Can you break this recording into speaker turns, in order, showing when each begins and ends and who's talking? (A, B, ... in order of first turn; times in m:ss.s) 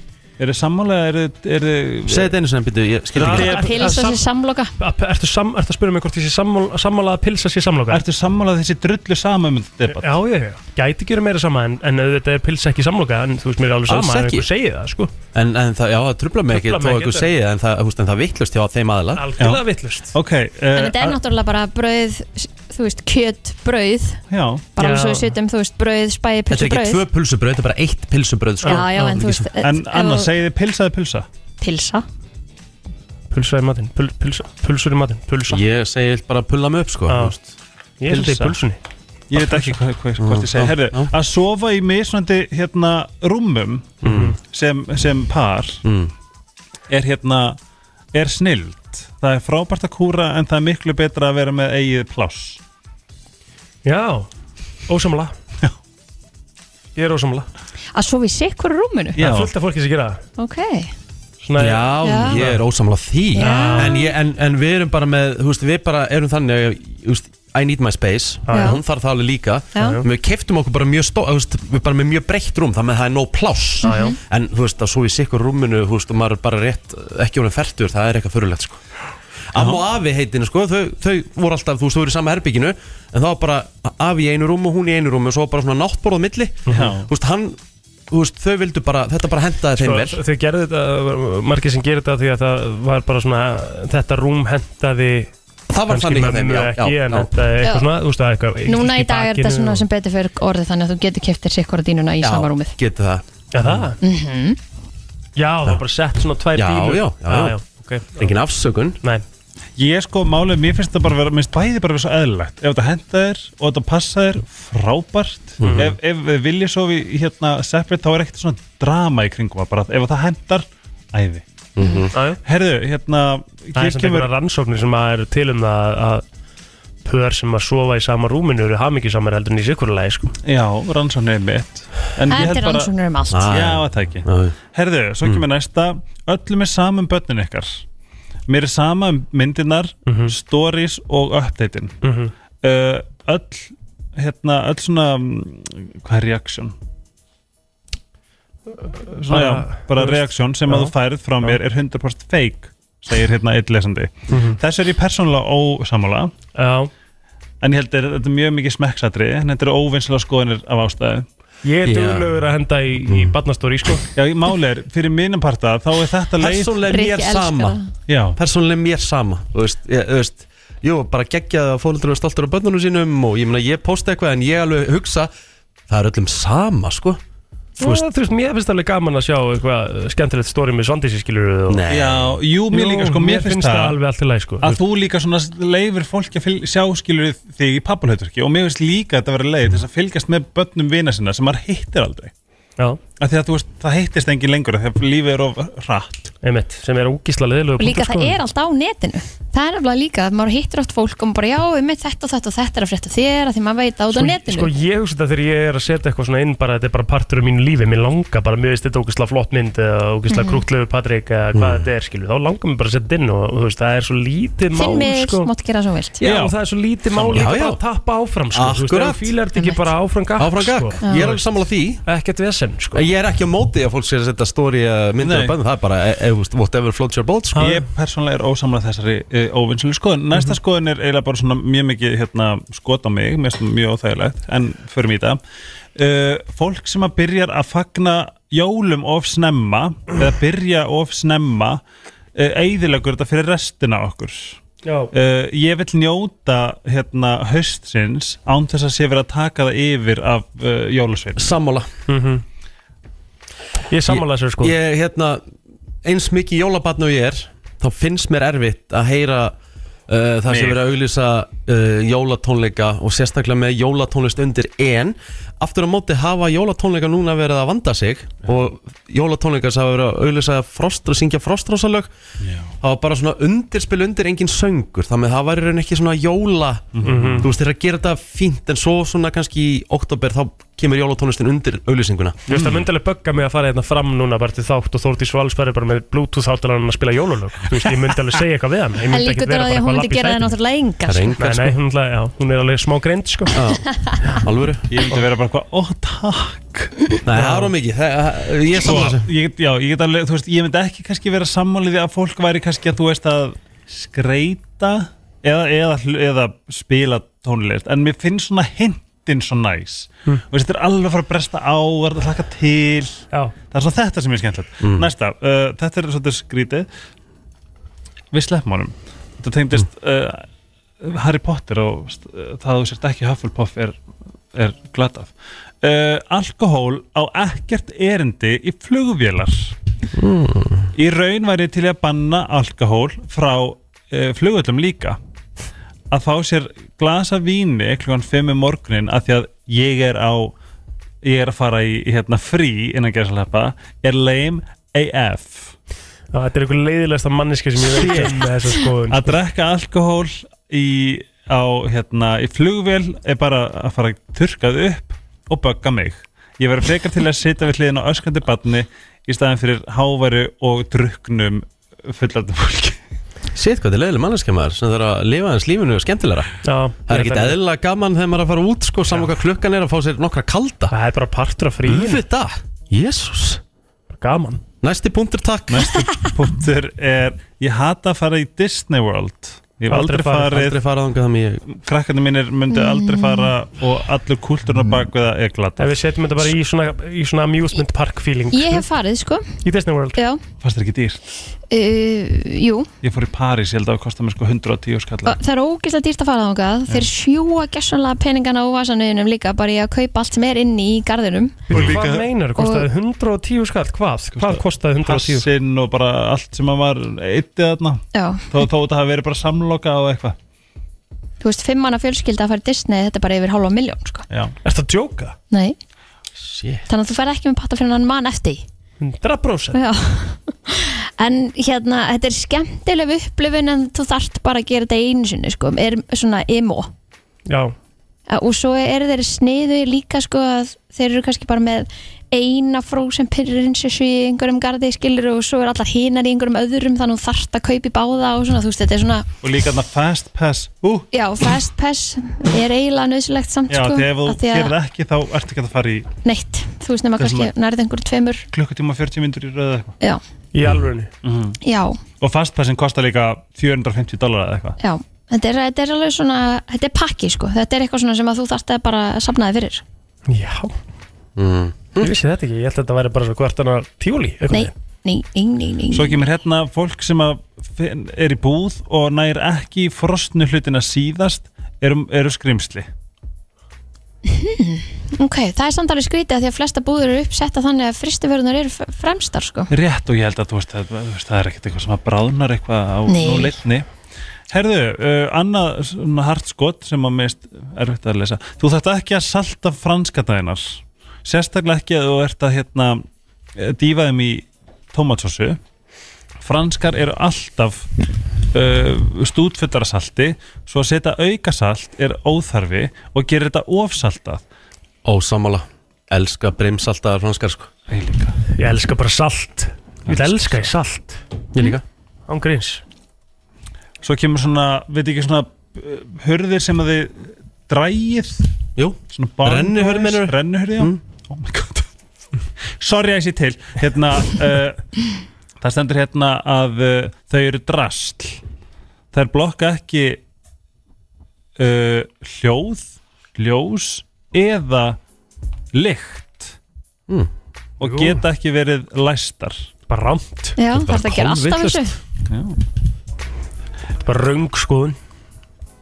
0:00.4-0:02.3 A
0:02.1-0:03.5 B
0:03.2-0:04.2 C
0:03.2-0:03.7 A
0:03.3-0:04.7 D
0:04.8-0:08.0 C
0:07.9-0:10.2 A
0:09.9-0:15.1 C
0:13.9-0:14.5 B
0:15.3-0:19.3 B
0:16.5-0:17.3 C
0:19.2-0:20.1 C
0:19.4-0:21.2 A
0:20.7-0:24.2 D
0:24.3-0:24.7 A
0:24.8-0:27.0 D
0:24.8-0:25.4 C
0:26.5-0:29.5 B
0:28.6-0:29.2 C
0:28.6-0:30.3 D
0:29.6-0:31.3 A
0:31.6-0:32.0 D
0:33.3-0:35.6 C
0:35.5-0:37.5 B
0:37.1-0:37.4 C
0:38.0-0:38.8 C
0:38.1-0:38.6 B
0:39.3-0:45.8 A
0:40.2-0:41.1 B
0:44.0-0:44.4 B
0:44.0-0:44.4 C
0:45.8-0:46.1 B
0:46.9-0:47.6 A
0:48.1-0:52.6 A
0:53.8-0:54.3 C
0:54.9-0:55.3 C
0:57.0-0:57.5 C
0:57.9-0:59.2 D
0:59.2-0:59.5 A
0:59.2-1:00.2 C
1:00.4-1:00.9 D
1:01.4-1:02.6 C
1:01.6-1:18.8 B
1:02.0-1:02.4 D
1:03.3-1:04.1 D
1:03.4-1:04.0 C
1:08.5-1:08.8 C
1:08.5-1:08.8 D
1:09.8-1:10.0 D
1:09.8-1:10.0 C
1:13.8-1:14.2 D
1:13.8-1:14.1 C
1:19.5-1:30.2 B
1:19.6-1:19.8 A
1:26.7-1:26.9 C
1:26.7-1:27.1 A
1:29.8-1:35.3 C
1:35.7-1:37.3 B
1:35.9-1:39.9 C
1:37.6-1:37.9 D
1:38.6-1:42.8 D
1:42.2-1:43.9 B
1:43.5-1:44.0 C
1:44.0-1:44.6 D
1:45.4-1:48.4 C
1:46.6-1:47.6 B
1:48.2-1:49.0 B
1:49.8-2:01.4 A
1:55.6-1:55.9 B
1:55.6-1:55.9 C
2:01.8-2:02.1 B
2:02.1-2:02.4 C
2:02.4-2:04.3 A
2:03.8-2:06.2 C
2:07.0-2:10.4 C
2:10.4-2:12.9 A
2:12.3-2:13.6 D
2:13.3-2:14.5 B
2:13.5-2:17.8 A
2:18.5-2:22.0 A
2:20.1-2:20.3 C
2:22.0-2:22.3 C
2:22.6-2:26.8 A
2:28.8-2:31.6 C
2:29.1-2:36.3 A
2:34.3-2:34.6 C
2:36.6-2:36.9 C
2:37.6-2:41.3 A
2:41.6-2:44.1 C
2:41.8-2:42.3 B
2:43.1-2:43.3 B
2:44.2-2:46.8 A
2:46.4-2:47.8 B
2:46.9-2:47.9 D
2:48.1-2:48.4 A
2:48.4-2:55.3 B
2:55.9-2:57.2 B
2:57.8-3:01.9 C
3:01.7-3:02.4 B
3:01.9-3:04.0 A
3:02.7-3:04.8 C
3:04.6-3:12.3 A
3:13.2-3:16.3 A
3:16.4-3:18.4 C
3:17.8-3:24.7 D
3:24.1-3:35.5 C
3:30.3-3:30.6 D
3:31.5-3:31.9 B
3:34.7-3:36.2 D
3:36.2-3:41.5 C
3:36.2-3:36.6 A
3:37.1-3:37.5 A
3:37.3-3:37.8 B
3:38.5-3:39.3 B
3:39.6-3:39.9 D
3:40.4-3:42.0 B
3:41.0-3:41.3 D
3:42.0-3:43.0 C
3:42.9-3:47.7 B
3:45.2-3:45.6 A
3:47.6-3:47.8 C
3:47.6-3:55.4 A
3:56.0-4:01.8 A
4:02.4-4:04.6 A
4:04.8-4:05.1 C
4:05.1-4:11.5 A
4:11.4-4:11.9 B
4:12.1-4:12.4 C
4:13.9-4:14.8 C
4:14.1-4:15.4 B
4:16.0-4:19.6 B
4:20.1-4:32.1 B
4:20.5-4:20.8 A
4:32.4-4:32.7 A
4:32.8-4:42.4 B
4:36.9-4:37.5 A
4:37.0-4:37.5 C
4:42.5-4:50.5 C
4:42.5-4:42.8 A
4:49.1-4:51.4 D
4:51.1-4:51.8 B
4:51.4-4:53.6 C
4:53.5-4:54.9 B
4:54.9-4:57.1 A
4:57.2-4:59.3 B
4:57.3-4:57.7 C
4:58.8-5:16.9 A
5:14.8-5:15.1 B
5:18.3-5:20.5 A
5:21.0-5:24.0 A
5:24.5-5:29.7 A
5:30.1-5:30.9 B
5:31.0-5:35.2 A
5:36.1-5:40.6 A
5:41.2-5:45.8 A
5:46.3-5:49.4 C
5:47.9-5:48.4 B
5:49.1-6:03.0 A
6:03.5-6:06.6 B
6:06.6-6:07.6 C
6:07.1-6:11.0 B
6:10.9-6:12.2 C
6:11.8-6:13.6 B
6:14.1-6:14.6 C
6:14.8-6:16.0 B
6:15.7-6:20.8 A
6:19.9-6:20.6 C
6:20.5-6:21.6 B
6:21.7-6:26.5 A
6:22.7-6:23.5 D
6:25.8-6:28.8 C
6:28.5-6:29.6 D
6:29.6-6:30.2 C
6:30.2-6:30.4 D
6:30.6-6:31.2 A
6:31.7-6:32.9 D
6:33.0-6:35.4 A
6:35.2-6:41.9 D
6:41.7-6:45.5 C
6:41.7-6:42.3 A
6:42.6-6:42.9 D
6:44.3-6:50.4 A
6:48.1-6:48.5 D
6:51.4-6:54.3 D
6:54.6-6:55.4 C
6:55.5-6:55.8 D
6:56.4-6:56.9 B
6:56.9-6:58.6 D
6:59.0-6:59.8 C
6:59.7-7:06.9 D
7:07.5-7:07.7 C
7:08.3-7:19.3 D
7:19.4-7:21.1 A
7:21.1-7:24.7 D
7:23.7-7:26.1 A
7:26.2-7:28.5 D
7:27.2-7:27.5 A
7:28.5-7:30.0 A
7:30.5-7:31.1 C
7:31.2-7:31.6 A
7:31.6-7:32.0 D
7:32.2-7:34.8 A
7:34.8-7:39.8 D
7:40.3-7:40.7 C
7:41.4-7:42.1 B
7:42.0-7:44.7 C
7:44.5-7:46.2 D
7:45.9-7:52.9 A
7:54.3-7:59.7 D
7:59.7-8:03.9 A
8:03.1-8:03.6 D
8:04.5-8:15.6 A
8:16.4-8:17.9 A
8:18.5-8:24.4 A
8:25.0-8:27.7 B
8:27.9-8:28.4 A
8:28.6-8:31.2 C
8:30.1-8:30.7 A
8:31.5-8:31.8 B
8:32.3-8:32.8 C
8:34.0-8:38.5 A
8:38.8-8:41.0 B
8:39.1-8:41.9 A
8:42.8-8:45.0 A
8:45.6-8:48.4 A
8:49.1-8:50.2 A
8:51.6-8:55.0 A
8:55.7-8:56.6 A
8:57.8-8:59.7 A
8:57.8-8:58.2 C
8:59.9-9:00.6 C
9:00.6-9:02.0 D
9:00.7-9:01.9 B
9:02.3-9:02.6 A
9:04.0-9:05.0 C